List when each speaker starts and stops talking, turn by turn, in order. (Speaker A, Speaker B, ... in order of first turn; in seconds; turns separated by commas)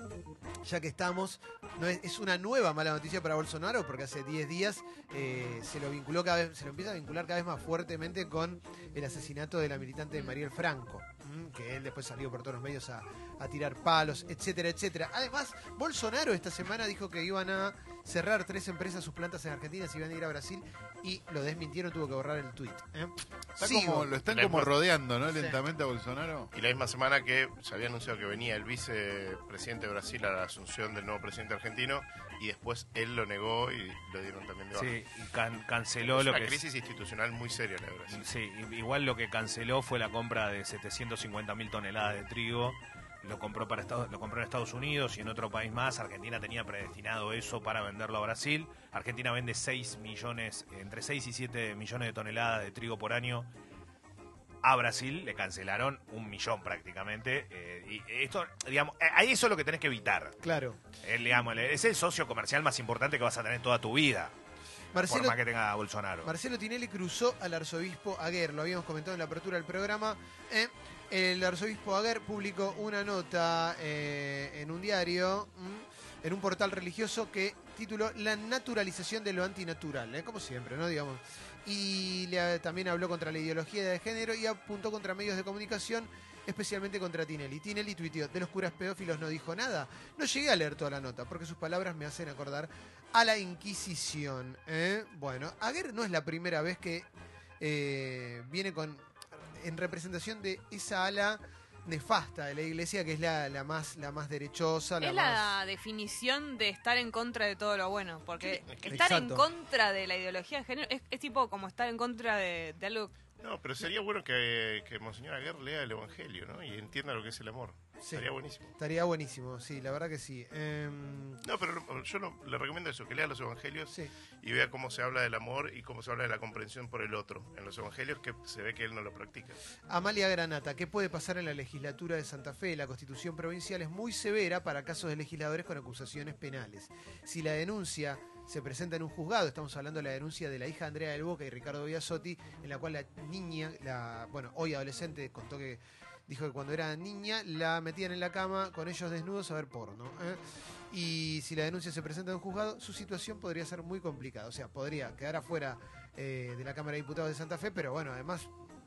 Speaker A: 0.6-24.1, Speaker B: 23.6-26.5, Speaker C: 24.3-24.7, Speaker C: 26.5-35.0, Speaker D: 34.7-36.6, Speaker C: 36.0-38.2, Speaker D: 38.1-53.5, Speaker D: 54.6-60.4, Speaker A: 60.4-60.8, Speaker D: 61.0-64.3, Speaker A: 64.9-65.4, Speaker D: 64.9-66.3, Speaker A: 66.2-97.1, Speaker A: 97.6-99.0, Speaker A: 99.6-105.5, Speaker E: 105.0-113.1, Speaker C: 108.4-109.1, Speaker A: 108.8-109.5, Speaker C: 113.4-118.7, Speaker A: 118.0-121.4, Speaker C: 121.4-129.6, Speaker A: 129.9-150.4, Speaker A: 150.9-158.5